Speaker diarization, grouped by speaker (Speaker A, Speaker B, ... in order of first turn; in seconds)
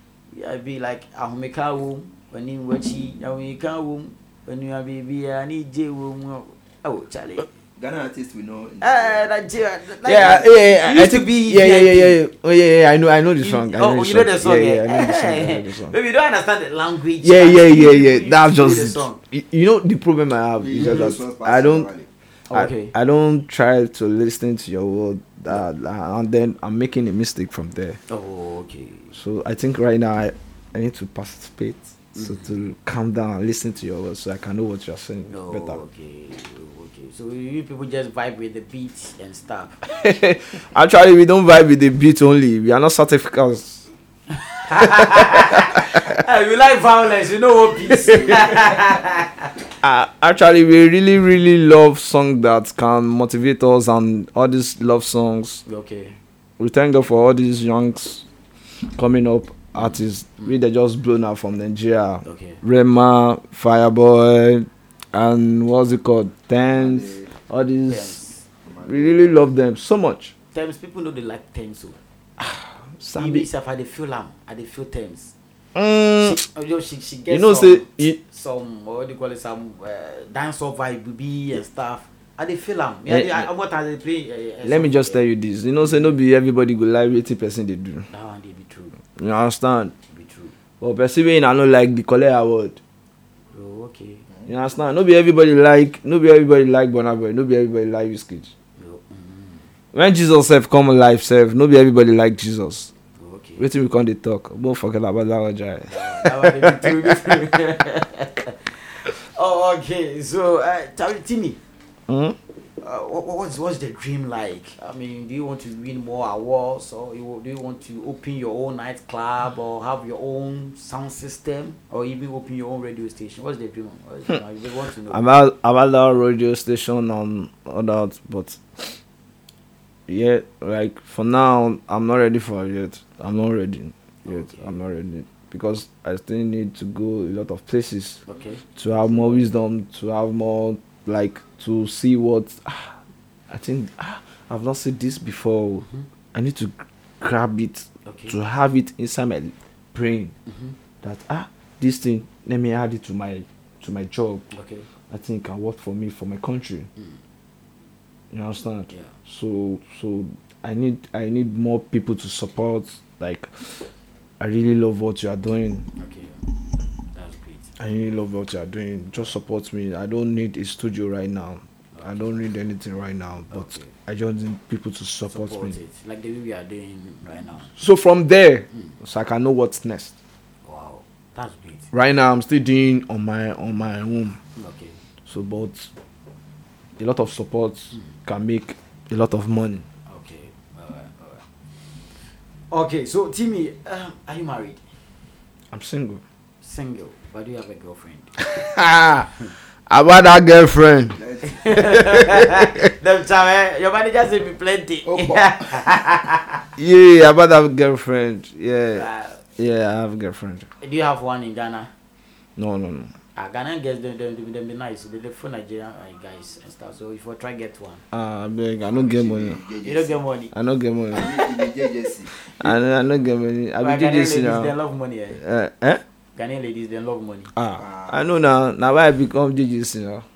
Speaker A: 0.3-7.5, 8.8-12.2, 13.4-19.2, 20.8-21.1, 22.5-22.9, 28.1-29.1, 32.1-32.5, 35.3-39.8, 44.3-49.5, 55.7-56.2, 62.2-62.6, 67.9-68.5, 70.5-72.0, 73.2-75.3, 76.2-85.2, 88.1-89.0, 90.1-90.5, 93.5-94.2, 98.8-99.7, 103.2-103.7, 105.9-111.6, 112.8-125.2, 134.2-134.8, 138.3-138.6, 145.8-146.1, 148.1-148.4, 150.5-150.8, 154.5-154.9, 158.9-159.2, 166.0-166.4, 167.1-167.7, 171.9-172.4, 173.5-173.9, 175.3-177.7, 180.6-181.9, 184.6-185.0, 190.1-194.9, 196.6-198.4, 201.4-206.6, 208.9-209.4, 210.8-211.9, 213.3-218.0, 219.8-220.5, 223.8-225.4, 226.4-227.5
Speaker B: 7.8-9.2, 20.6-22.1, 66.7-67.3, 68.7-69.4, 201.2-201.8, 205.1-205.9, 218.9-220.2, 221.1-222.3, 227.8-228.3
Speaker C: 10.0-15.9, 17.2-21.9, 22.5-28.0, 29.1-35.8, 39.9-43.9, 44.9-46.0, 49.8-55.6, 56.6-58.3, 58.9-68.2, 68.8-70.3, 72.4-73.5, 75.8-76.4, 77.3-78.2, 83.1-83.5, 84.6-88.1, 89.2-89.9, 90.8-92.8, 94.5-98.5, 99.9-102.9, 103.6-107.2, 112.1-112.4, 125.1-129.0, 130.1-138.2, 138.8-143.0, 143.5-150.3, 151.0-154.5, 155.1-156.9, 158.3-163.9, 164.4-165.9, 167.8-175.8, 177.8-180.1, 181.9-184.4, 185.3-185.9, 187.0-189.8, 195.7-196.2, 198.4-199.3, 199.9-201.2, 201.7-202.9, 206.8-209.1, 209.6-210.7, 212.6-213.1, 218.1-219.6, 220.5-221.4, 222.5-224.7, 225.3-226.0, 227.5-230.3